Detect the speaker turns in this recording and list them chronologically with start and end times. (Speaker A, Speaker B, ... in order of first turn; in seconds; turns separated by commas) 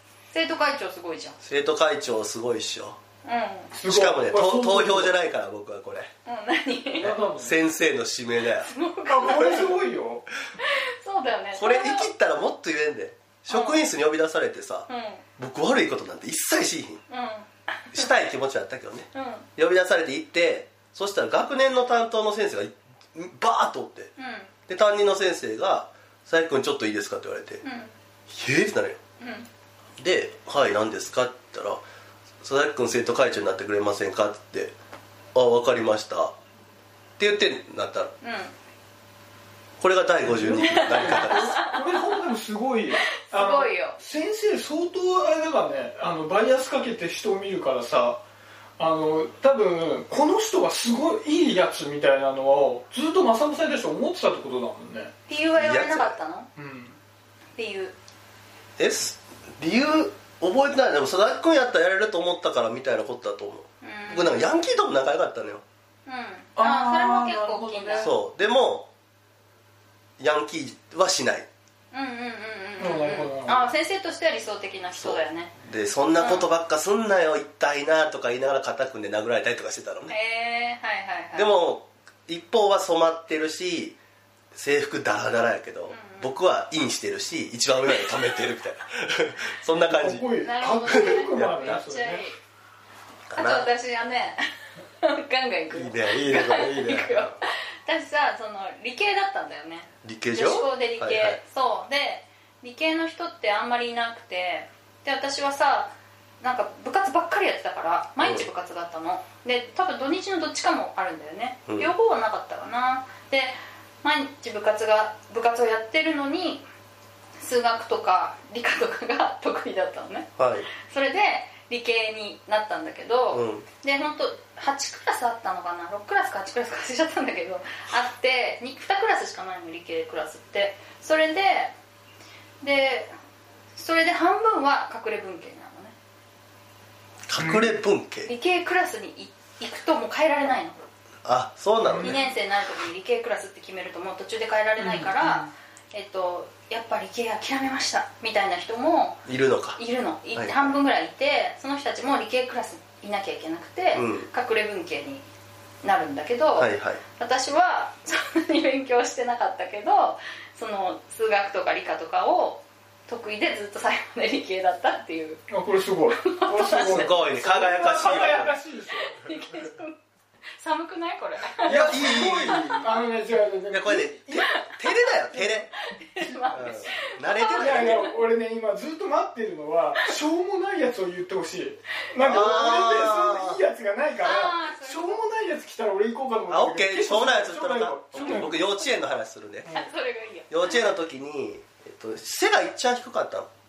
Speaker A: 0.3-1.4, Speaker B: 1.4-3.0, Speaker A: 3.2-3.7, Speaker C: 3.7-5.2, Speaker B: 3.8-6.1, Speaker A: 6.2-7.1, Speaker C: 7.0-7.6, Speaker B: 7.0-8.7, Speaker A: 8.6-9.8, Speaker C: 9.1-10.3, Speaker A: 10.6-12.1, Speaker B: 11.5-17.0, Speaker A: 13.5-13.8, Speaker A: 14.9-15.2, Speaker A: 17.1-18.1, Speaker B: 17.9-24.1, Speaker A: 19.1-19.5, Speaker A: 24.2-24.5, Speaker B: 24.7-27.6, Speaker A: 27.6-27.9, Speaker B: 28.3-29.0, Speaker A: 29.2-29.5, Speaker B: 30.0-31.8, Speaker B: 32.4-34.7, Speaker B: 35.3-36.3, Speaker B: 37.2-38.1, Speaker A: 38.2-38.5, Speaker B: 39.8-41.6, Speaker C: 40.2-48.2, Speaker A: 40.7-42.1, Speaker A: 42.9-44.0, Speaker C: 48.8-55.1, Speaker A: 55.3-56.5, Speaker B: 55.5-56.1, Speaker C: 56.5-57.0, Speaker A: 57.5-57.9, Speaker B: 58.8-65.6, Speaker A: 63.8-64.5, Speaker A: 66.0-68.1, Speaker C: 66.5-68.1, Speaker B: 68.0-68.9, Speaker B: 70.2-71.5, Speaker A: 71.9-75.5, Speaker C: 72.8-73.7, Speaker B: 74.9-80.1, Speaker A: 76.2-76.5, Speaker A: 80.1-81.5, Speaker B: 81.3-84.0, Speaker B: 84.5-90.3, Speaker A: 85.9-86.3, Speaker C: 89.9-92.2, Speaker A: 90.4-92.4, Speaker B: 90.8-91.8, Speaker B: 93.3-93.7, Speaker A: 93.3-94.4, Speaker A: 95.0-116.6, Speaker B: 95.7-97.3, Speaker B: 100.0-101.4, Speaker B: 108.2-108.5, Speaker B: 111.7-111.9, Speaker A: 117.4-131.7, Speaker B: 120.4-120.7, Speaker B: 123.3-123.7, Speaker A: 132.6-133.1, Speaker A: 133.7-135.9, Speaker B: 137.3-138.3, Speaker C: 137.4-137.7, Speaker A: 138.2-140.8, Speaker B: 141.2-142.2, Speaker C: 141.8-142.2, Speaker A: 142.0-149.2, Speaker C: 144.8-145.5, Speaker B: 149.2-149.8, Speaker A: 149.7-155.2, Speaker B: 150.3-150.8, Speaker B: 153.9-154.3, Speaker A: 155.8-165.4, Speaker B: 156.6-157.0, Speaker C: 165.5-169.2, Speaker A: 166.1-167.2, Speaker B: 166.8-168.6, Speaker A: 168.9-170.0, Speaker A: 170.6-172.9, Speaker C: 171.6-174.5, Speaker B: 171.6-172.9, Speaker B: 173.7-175.7, Speaker A: 174.4-174.7, Speaker C: 175.3-176.6, Speaker A: 175.9-178.2, Speaker B: 176.5-178.1, Speaker C: 177.6-188.7, Speaker B: 182.2-183.6, Speaker A: 184.2-185.2, Speaker B: 186.5-189.7, Speaker A: 188.2-188.5, Speaker C: 189.6-189.9, Speaker A: 189.7-190.8, Speaker B: 190.5-193.5